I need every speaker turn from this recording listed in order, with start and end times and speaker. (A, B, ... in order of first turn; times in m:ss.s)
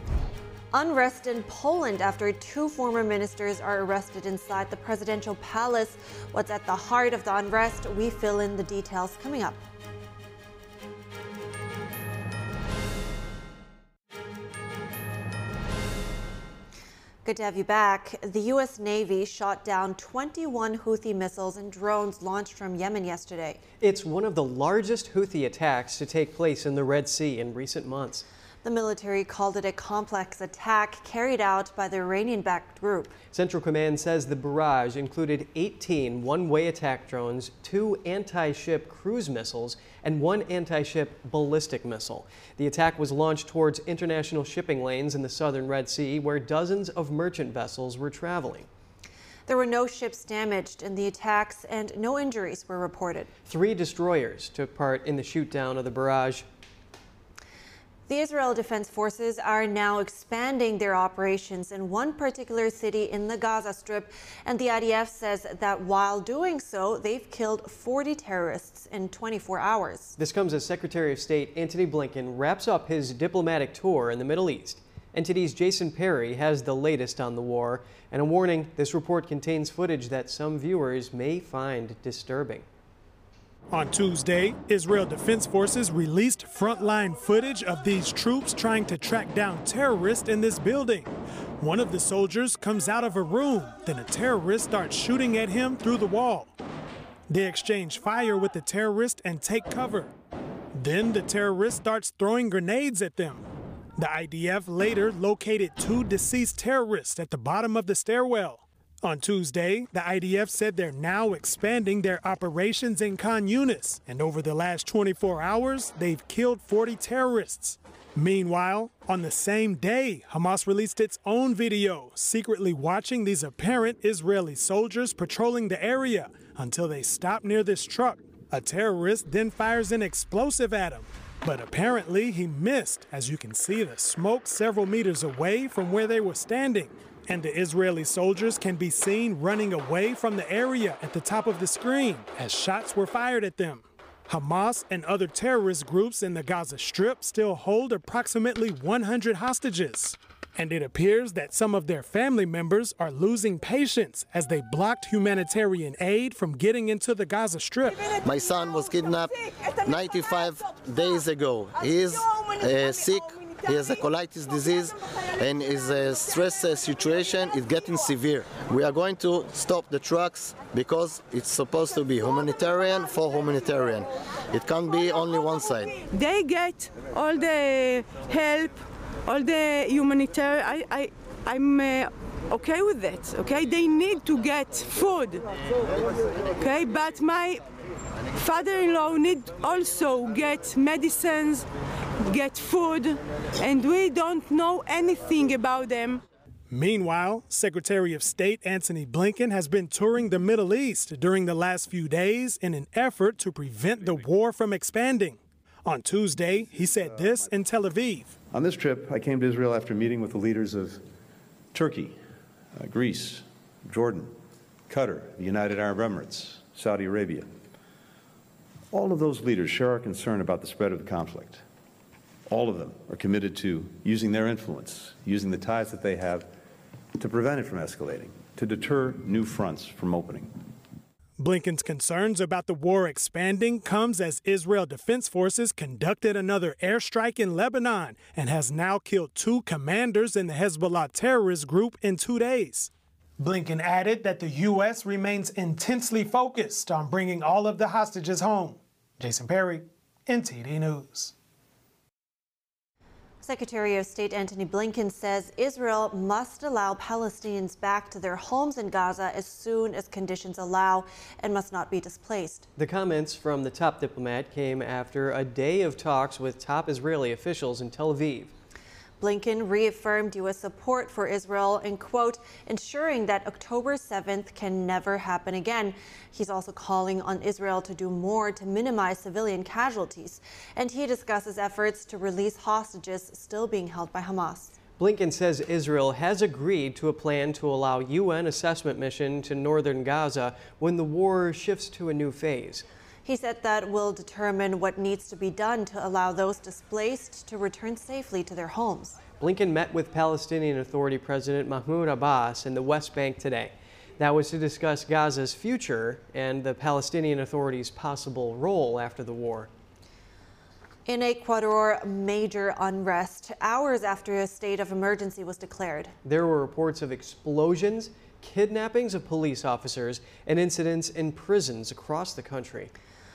0:00.7-0:09.6 A
0:17.2-0:23.6 A
0:23.8-0:28.2 B
0:28.6-0:33.2 A
0:33.3-0:48.7 B
0:49.5-0:53.3 A
0:53.5-0:56.4 B
0:58.1-1:10.2 A
1:10.2-1:22.6 B
1:23.7-1:36.5 C
1:37.3-1:40.1 C
1:40.8-1:43.4 C
1:44.0-2:38.1 C
2:38.2-2:56.0 D
2:56.1-3:05.4 E
3:06.6-3:07.6 E
3:08.3-3:11.7 E
3:12.2-3:16.2 E
3:16.7-3:28.4 C
3:26.7-3:27.4 F
3:28.5-3:31.0 F
3:31.7-3:32.2 F
3:32.8-3:34.4 F
3:34.9-3:37.5 F
3:38.9-3:41.6 F
3:42.5-3:46.5 F
3:47.2-3:50.6 F
3:51.4-4:11.3 C
4:13.4-4:22.7 A
4:22.8-4:28.5 B
4:29.2-4:44.8 A
4:45.0-4:52.8 B
4:53.2-4:59.2 A
4:59.4-5:09.7 B
5:11.0-5:16.1 A
5:16.2-5:22.9 B